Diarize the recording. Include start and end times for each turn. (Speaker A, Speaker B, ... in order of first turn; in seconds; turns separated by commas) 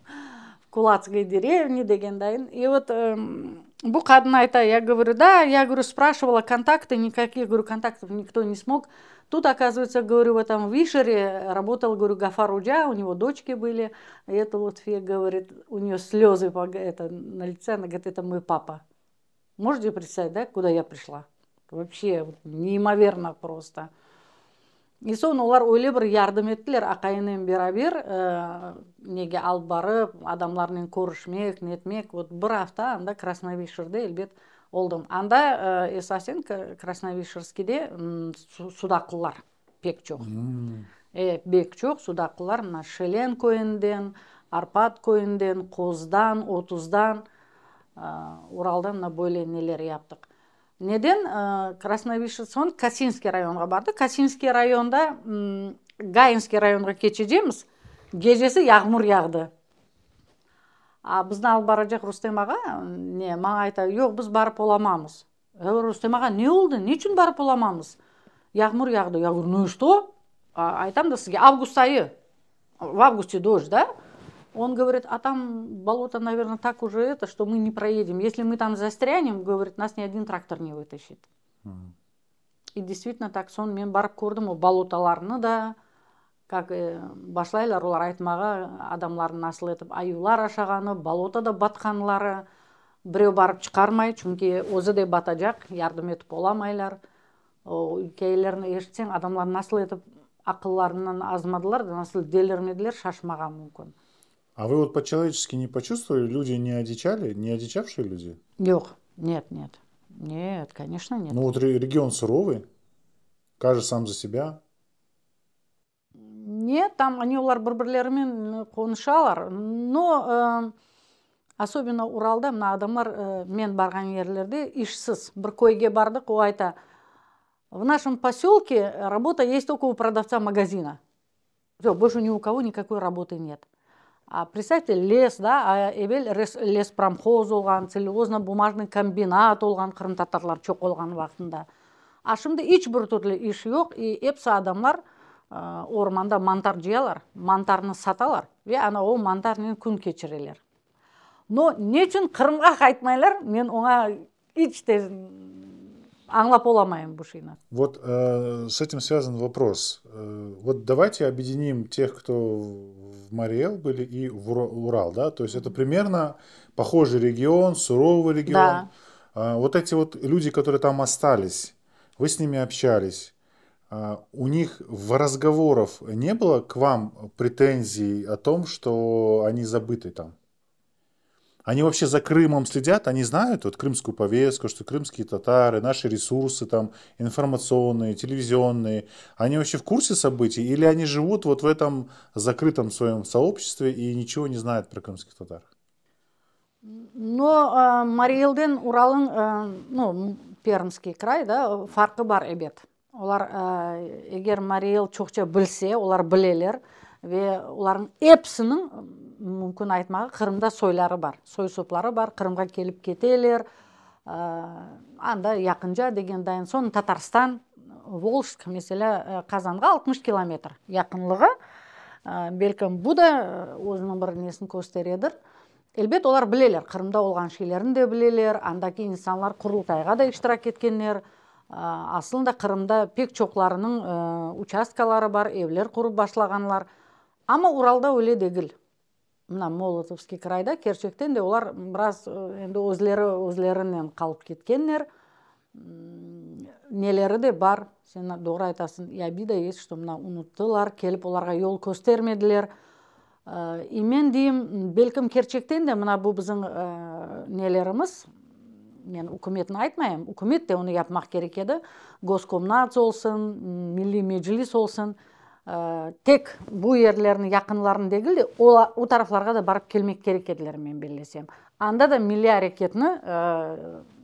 Speaker A: 0.7-18.8, Speaker A: 19.6-23.9, Speaker A: 25.1-40.3, Speaker B: 40.2-40.9, Speaker A: 41.1-47.2, Speaker A: 48.0-50.3, Speaker A: 50.8-59.5, Speaker A: 61.1-68.0, Speaker A: 68.5-72.1, Speaker A: 72.8-73.9, Speaker A: 74.5-81.3, Speaker B: 81.7-81.9, Speaker A: 82.8-85.8, Speaker A: 86.5-92.4, Speaker A: 93.1-97.0, Speaker A: 97.7-103.9, Speaker B: 104.6-108.4, Speaker A: 108.6-111.4, Speaker B: 111.3-112.7, Speaker B: 113.6-114.6, Speaker A: 116.2-120.7, Speaker A: 121.6-126.7, Speaker A: 127.7-131.0, Speaker A: 131.8-133.7, Speaker A: 134.3-141.7, Speaker A: 142.3-145.0, Speaker A: 145.5-150.6, Speaker A: 151.5-157.6, Speaker B: 157.7-173.3, Speaker A: 168.5-168.9, Speaker B: 173.9-180.3, Speaker B: 181.7-195.7, Speaker A: 196.8-213.7, Speaker A: 214.3-221.5, Speaker A: 222.3-225.3, Speaker A: 226.0-236.9, Speaker A: 237.5-238.7, Speaker A: 239.5-245.1, Speaker A: 245.8-252.7, Speaker A: 253.5-258.3, Speaker A: 259.1-265.2, Speaker A: 265.7-274.1